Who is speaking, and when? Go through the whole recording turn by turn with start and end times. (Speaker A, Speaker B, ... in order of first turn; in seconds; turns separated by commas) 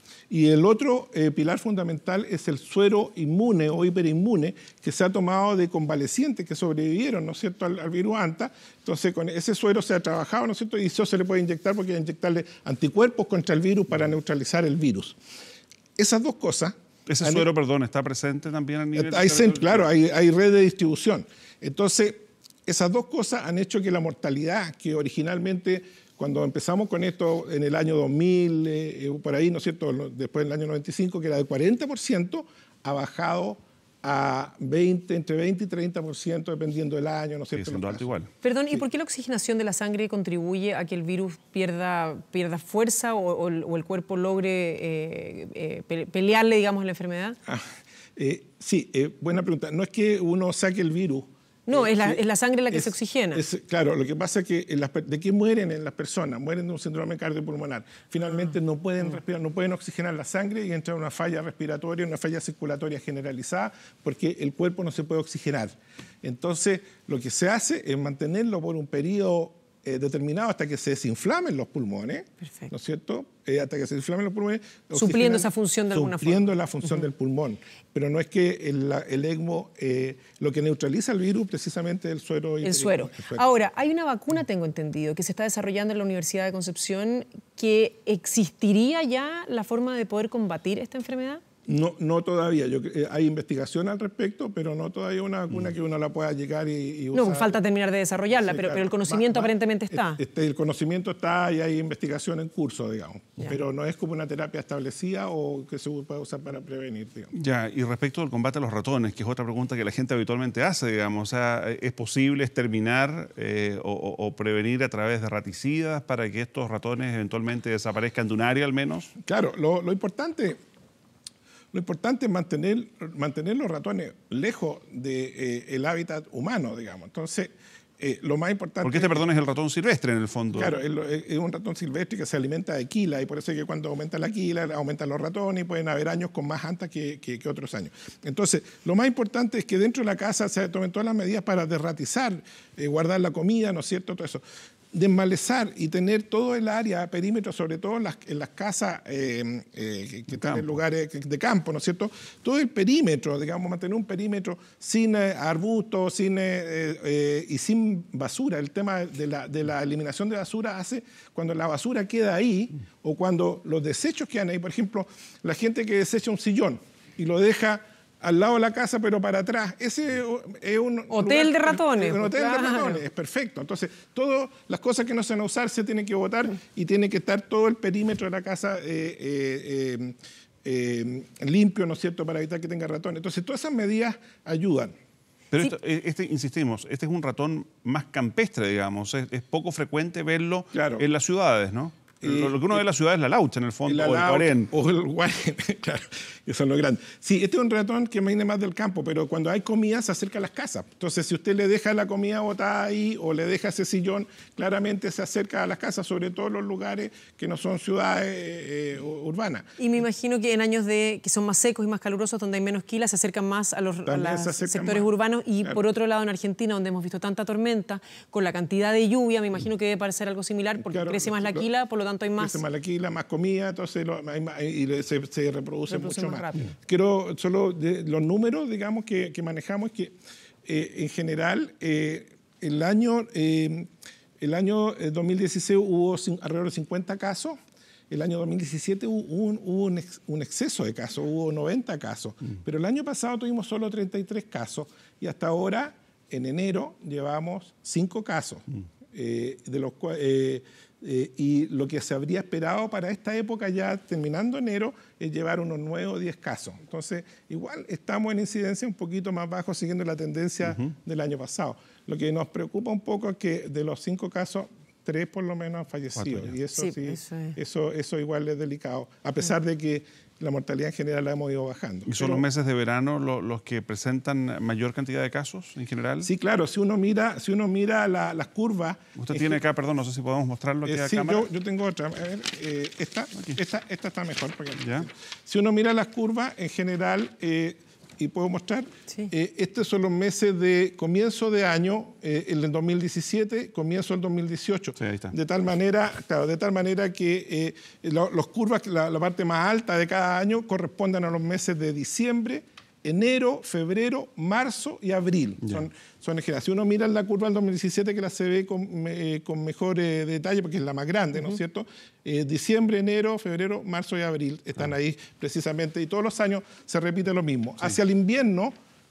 Speaker A: 0.3-15.2, Speaker A: 16.0-17.4, Speaker B: 17.1-19.9, Speaker A: 18.9-38.0, Speaker B: 37.5-38.3, Speaker C: 38.4-47.4, Speaker A: 47.5-83.4, Speaker C: 51.7-53.4, Speaker C: 74.9-76.5, Speaker C: 82.6-91.4, Speaker A: 91.7-97.6, Speaker C: 97.1-100.2, Speaker A: 98.3-107.3, Speaker B: 107.3-119.1, Speaker A: 119.2-120.6, Speaker A: 121.7-129.2, Speaker B: 128.8-130.8, Speaker A: 130.5-184.9, Speaker B: 150.3-150.7, Speaker C: 171.1-173.0, Speaker B: 185.5-194.7, Speaker A: 190.7-191.1, Speaker A: 192.2-192.8, Speaker A: 193.9-209.8, Speaker C: 209.8-222.6, Speaker A: 214.1-215.1, Speaker A: 220.8-221.7, Speaker A: 222.4-230.2, Speaker C: 225.9-226.7, Speaker A: 230.7-237.6, Speaker A: 238.1-272.4, Speaker B: 266.2-266.6, Speaker C: 266.8-267.6, Speaker B: 272.1-276.3, Speaker A: 276.2-279.6, Speaker B: 279.2-281.5, Speaker A: 280.9-318.7, Speaker B: 284.8-285.1, Speaker B: 295.0-295.3